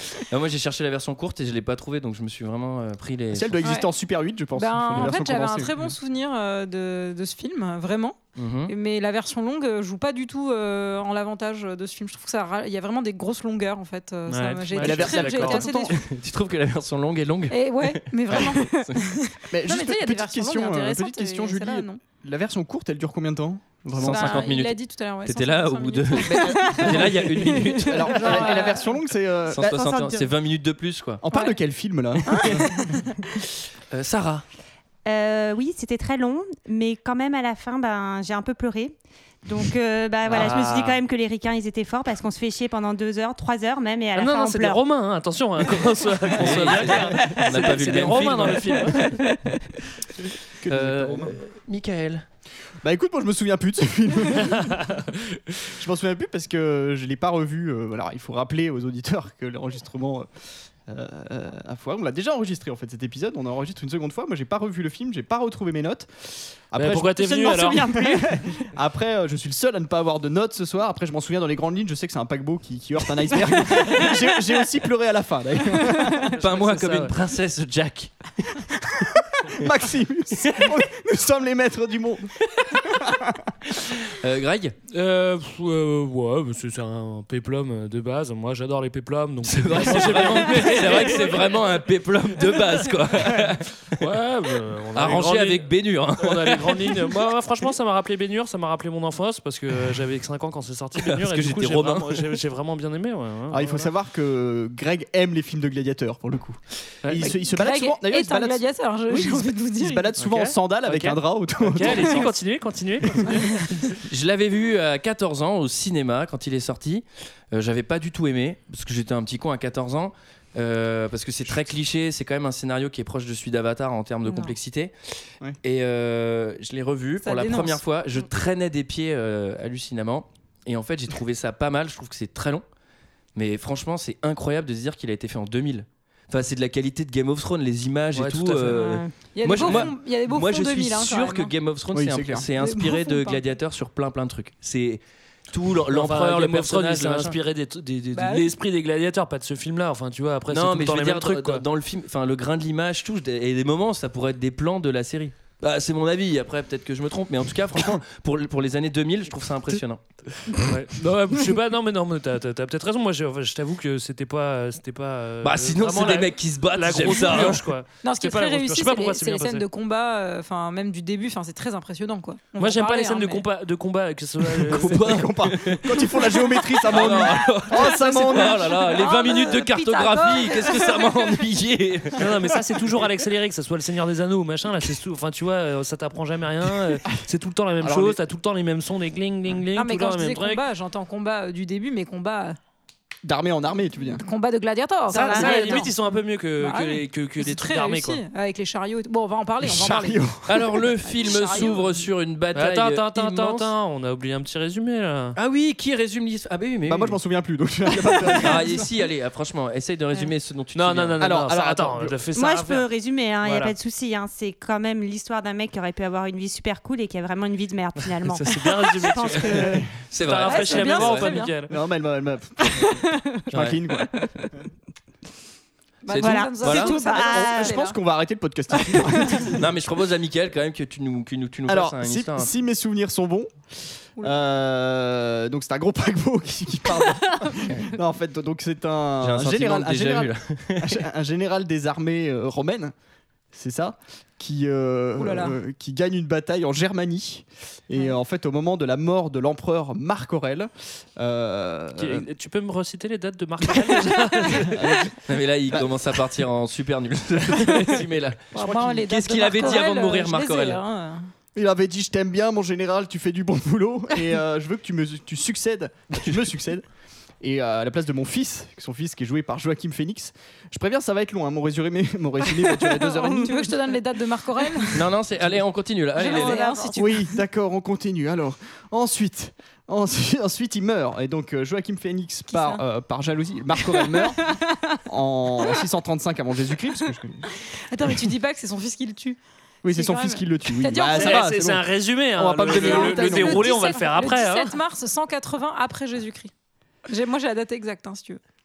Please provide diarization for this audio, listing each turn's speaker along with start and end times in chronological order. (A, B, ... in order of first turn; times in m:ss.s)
0:00.2-0:03.6 A
0:03.3-0:05.7 B
0:03.6-0:03.9 C
0:04.6-0:16.0 C
0:08.4-0:08.7 A
0:14.3-0:15.7 D
0:14.8-0:15.9 B
0:15.9-0:19.0 A
0:17.5-0:22.0 C
0:19.5-0:24.5 B
0:23.9-0:28.4 A
0:24.0-0:29.0 C
0:26.2-0:29.6 B
0:29.5-0:31.2 A
0:29.5-0:30.3 E
0:31.2-0:32.7 B
0:31.3-0:31.6 C
0:32.3-0:33.2 C
0:33.9-0:34.4 A
0:35.0-0:44.8 E
0:40.2-0:41.0 D
0:44.1-0:49.1 D
0:46.4-0:49.1 A
0:50.6-0:51.4 B
0:50.7-0:52.2 A
0:52.8-0:55.0 B
0:55.6-1:00.3 B
1:00.8-1:16.2 B
1:06.7-1:08.0 D
1:07.2-1:08.6 E
1:16.2-1:17.1 D
1:16.4-1:19.0 A
1:19.5-1:23.5 B
1:22.6-1:22.9 A
1:24.0-1:24.8 A
1:24.9-1:31.6 D
1:29.4-1:34.0 A
1:33.9-1:43.9 D
1:34.9-1:37.1 A
1:41.0-1:42.4 A
1:43.5-1:52.3 B
1:47.0-1:47.3 D
1:47.3-1:50.1 C
1:50.2-1:54.0 D
1:53.3-1:53.6 C
1:54.0-2:04.9 A
2:05.6-2:12.6 A
2:07.2-2:07.8 C
2:13.3-2:27.4 A
2:18.1-2:18.8 D
2:18.7-2:19.1 E
2:19.3-2:21.5 C
2:21.9-2:22.5 B
2:22.5-2:23.4 C
2:25.9-2:31.6 D
2:28.1-2:28.5 C
2:30.5-2:40.0 A
2:40.4-2:49.7 D
2:45.4-2:47.6 A
2:48.0-2:53.4 C
2:52.6-2:55.2 D
2:54.7-3:02.3 A
2:54.7-2:58.7 B
2:57.9-3:01.4 C
3:02.2-3:10.6 D
3:07.8-3:08.2 B
3:09.7-3:12.6 C
3:13.2-3:14.2 B
3:14.2-3:15.9 C
3:15.1-3:18.2 D
3:15.1-3:15.9 E
3:16.6-3:22.0 C
3:19.6-3:20.7 B
3:20.4-3:23.7 A
3:22.5-3:25.4 D
3:25.4-3:27.2 A
3:26.8-3:28.8 B
3:28.4-3:31.2 A
3:30.7-3:32.8 D
3:31.2-3:32.2 B
3:32.3-3:39.9 E
3:33.4-3:33.7 D
3:38.3-3:38.6 A
3:38.4-3:41.7 D
3:39.5-3:39.9 B
3:40.1-3:41.3 A
3:40.4-3:41.6 C
3:41.7-3:44.1 B
3:43.5-3:43.8 A
3:46.0-3:48.0 C
3:46.1-3:47.0 A
3:46.1-3:47.8 E
3:47.0-3:49.6 B
3:49.5-3:52.5 A
3:51.7-3:53.5 B
3:54.2-4:02.9 B
3:59.2-4:01.0 A
4:03.5-4:12.3 B
4:05.2-4:05.6 C
4:12.0-4:15.0 D
4:14.6-4:15.1 B
4:15.2-4:20.8 A
4:18.5-4:21.3 C
4:18.6-4:18.9 B
4:21.5-4:26.8 B
4:27.4-4:33.7 B
4:32.9-4:35.1 C
4:34.9-4:36.6 A
4:36.1-4:37.3 C
4:36.2-4:37.1 E
4:37.0-4:44.5 B
4:42.5-4:42.8 C
4:43.9-4:45.0 C
4:45.0-4:47.4 B
4:47.9-4:51.5 C
4:49.8-4:53.7 B
4:51.1-4:54.8 D
4:52.6-4:56.5 C
4:57.1-4:58.4 C